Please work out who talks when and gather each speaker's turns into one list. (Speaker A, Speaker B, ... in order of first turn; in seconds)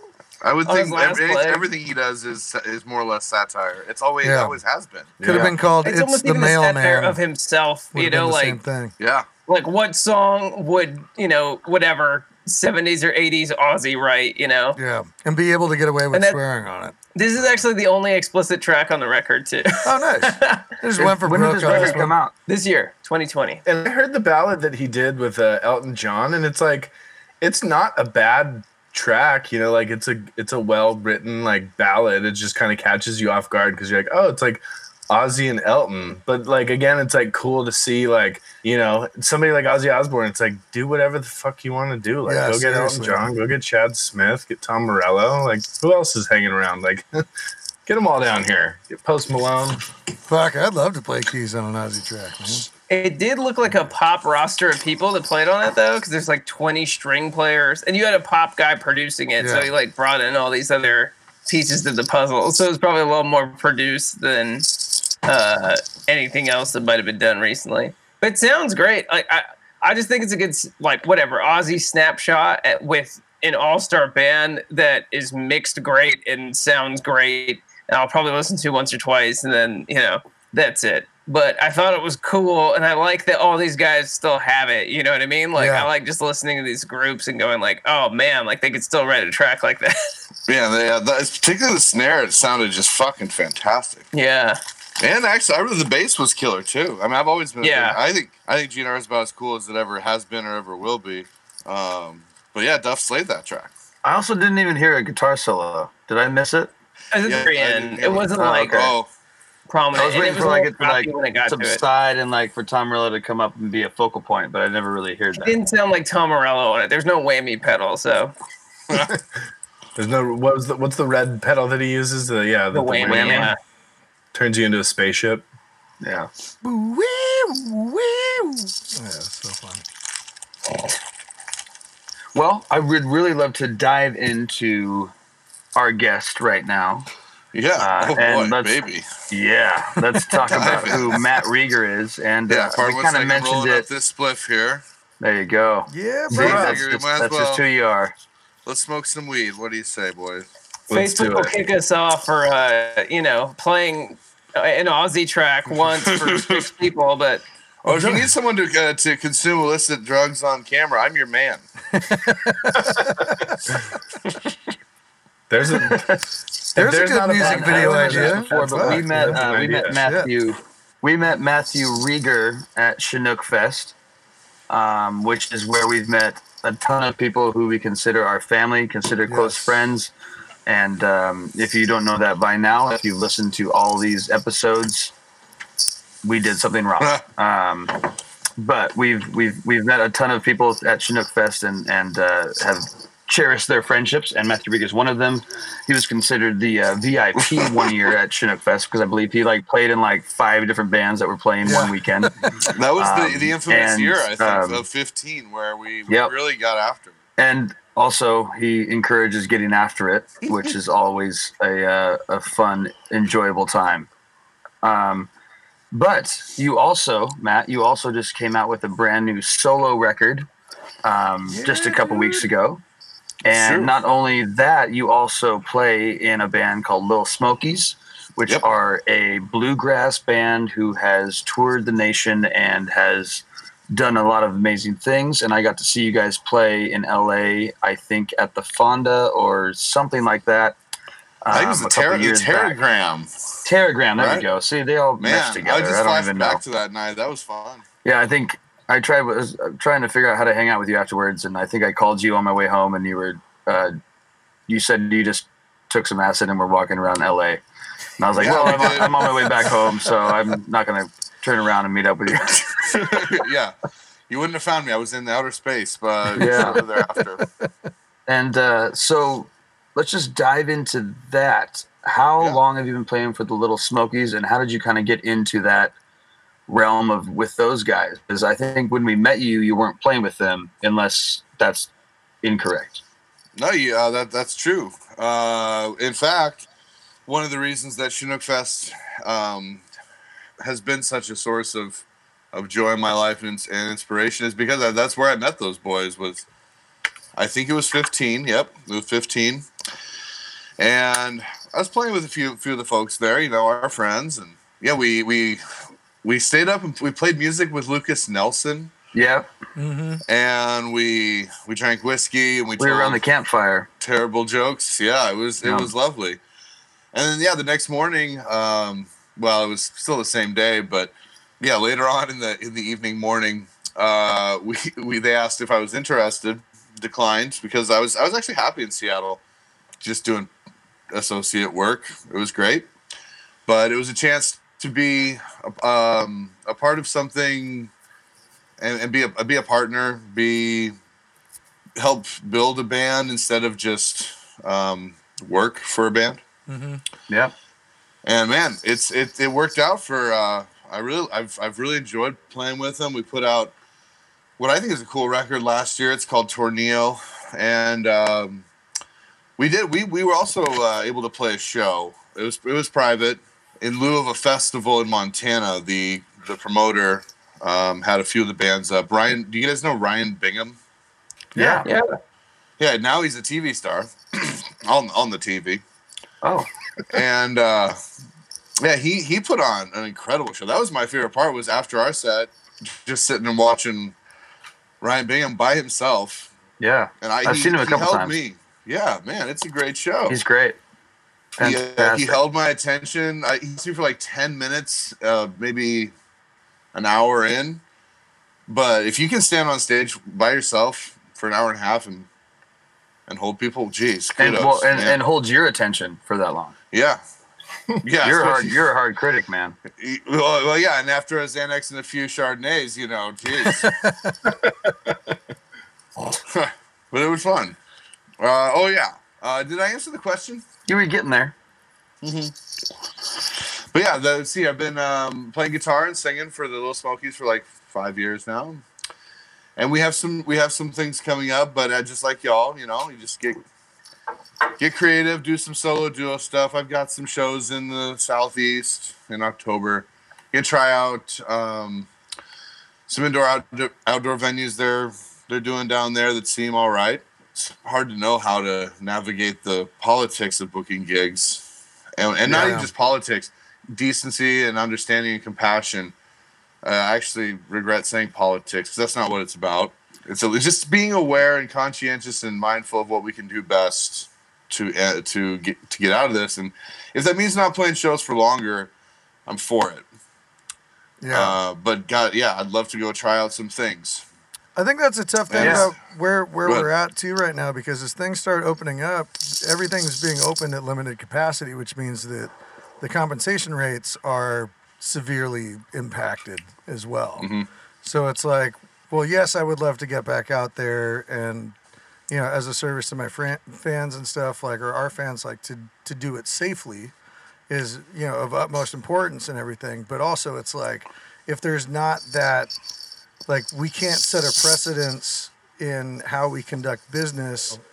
Speaker A: 0.4-5.2, 9.0-9.3, 90.5-94.1, 95.0-103.7, 107.2-109.1, 137.5-139.1, 140.4-141.3, 142.5-144.8, 146.3-147.6, 148.7-150.5, 156.1-156.7, 157.8-161.7, 162.5-163.4, 197.6-197.9, 202.7-207.1, 223.5-223.9, 241.5-243.3, 244.2-244.4, 245.2-247.8, 258.3-259.8, 262.8-263.7, 264.3-267.4, 283.6-286.7, 287.3-289.8, 290.6-296.4, 297.4-299.7, 300.8-305.6, 306.2-308.9, 310.3-313.2, 314.0-316.4, 317.1-329.4, 330.0-330.5, 331.1-332.9, 333.7-337.9, 338.8-340.9, 342.0-346.4, 348.2-353.7, 354.6-358.6, 359.6-370.8, 372.8-375.8, 377.1-378.0, 378.8-384.1, 385.0-386.5, 387.2-390.4, 391.6-396.1, 396.9-397.8, 398.7-402.3, 403.3-405.2, 406.9-407.2, 408.0-408.8, 410.0-414.0, 416.3-417.8, 418.4-420.6, 422.2-422.5, 423.9-428.8, 429.8-433.6, 434.8-442.1, 443.1-451.6, 452.2-456.1, 456.8-468.9, 469.5-470.1, 471.3-474.2, 475.5-475.9, 487.4-487.7
Speaker B: 0.6-1.6, 5.8-8.6, 9.5-14.8, 16.1-16.4, 17.1-20.7, 21.7-21.9, 22.5-23.6, 52.9-64.7, 65.2-90.0, 94.1-94.6, 97.6-98.0, 107.1-108.9, 109.7-111.8, 115.4-118.3, 122.7-123.6, 150.9-157.4
Speaker C: 4.2-4.6, 5.2-7.2, 7.9-8.9, 14.7-17.5, 19.8-22.1, 42.2-43.2, 50.3-52.7, 59.4-59.7, 85.5-85.9, 126.6-129.8, 145.9-146.8, 157.9-158.3, 161.9-163.2, 166.8-170.3, 179.2-179.8, 201.6-202.5, 221.5-222.5, 267.4-267.7, 309.8-310.2, 346.7-347.0, 371.5-371.9, 413.7-414.3, 452.4-452.9, 471.2-471.6, 474.8-487.5, 488.0-491.8, 492.3-497.1, 497.7-502.7, 503.5-507.8
Speaker D: 5.2-5.5, 23.6-47.0, 47.9-49.8, 120.0-123.5, 124.3-125.5, 150.9-151.5, 165.5-166.2, 166.7-170.0
Speaker E: 21.0-22.3, 104.0-106.7, 108.4-108.9, 109.9-115.6, 123.0-123.5, 126.0-126.3, 132.3-135.1, 135.8-137.1, 137.8-138.8, 139.3-143.8, 145.2-148.1, 167.0-173.9, 174.7-180.1, 180.7-185.1, 186.2-188.0, 188.6-202.3, 203.0-204.8, 206.1-206.3, 207.4-214.1, 214.8-215.3, 215.9-220.5, 221.0-222.8, 223.4-240.8, 241.4-242.8, 243.6-246.6, 248.0-253.9, 254.7-257.6, 258.2-262.7, 266.4-266.8, 268.3-275.9, 276.7-281.9, 282.4-283.0, 309.1-309.5, 312.8-313.9, 315.6-315.9, 371.6-371.8, 376.4-376.7, 386.8-388.3, 390.3-390.8, 391.6-392.4, 404.4-406.8, 408.2-409.8, 420.9-421.5, 475.6-475.9